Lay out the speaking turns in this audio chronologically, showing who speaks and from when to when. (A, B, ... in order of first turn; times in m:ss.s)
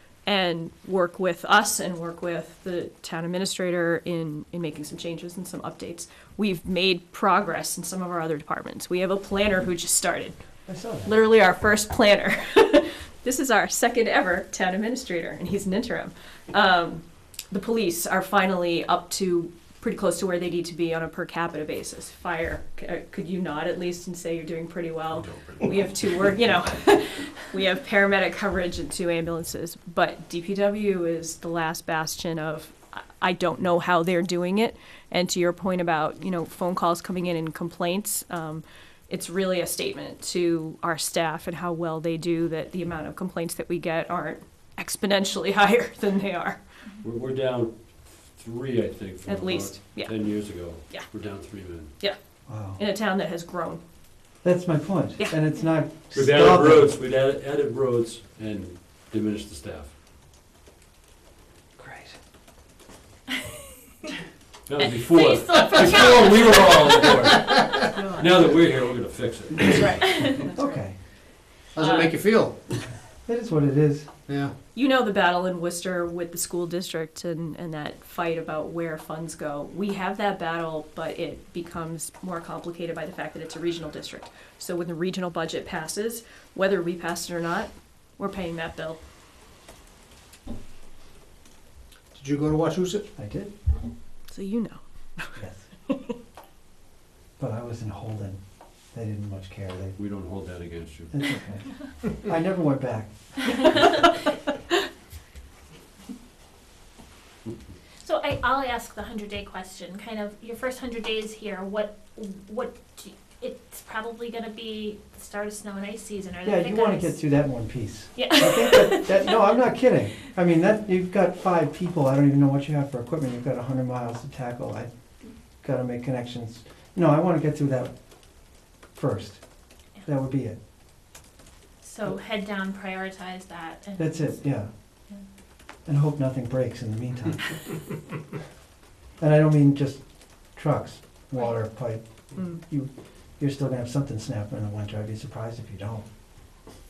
0:00.3-0:10.4 A
0:10.7-0:11.2 B
0:11.0-0:46.6 A
0:25.1-0:25.8 C
0:47.0-0:51.9 C
0:49.3-0:51.1 A
0:52.5-0:52.8 B
0:52.8-0:53.8 A
0:54.4-0:57.0 B
0:56.2-0:59.9 C
1:01.8-1:02.2 B
1:04.7-1:10.2 C
1:05.0-1:07.0 D
1:05.5-1:05.8 E
1:07.2-1:07.8 E
1:09.7-1:10.8 A
1:09.9-1:10.5 D
1:10.5-1:11.0 B
1:11.8-1:12.9 E
1:11.8-1:12.2 A
1:13.2-1:14.1 B
1:14.3-1:14.5 E
1:14.7-1:29.0 A
1:32.1-1:33.1 E
1:33.2-1:33.5 B
1:34.3-1:35.4 A
1:35.4-1:35.7 B
1:37.4-1:38.4 B
1:38.9-1:40.0 B
1:40.0-1:41.4 C
1:41.1-1:43.7 B
1:43.5-1:44.2 D
1:48.0-1:57.2 D
1:56.4-2:04.9 B
1:58.2-1:59.4 D
2:05.6-2:07.9 B
2:09.0-2:09.4 B
2:10.0-2:10.6 B
2:11.8-2:14.5 D
2:14.0-2:14.7 B
2:15.9-2:17.8 B
2:19.2-2:26.0 B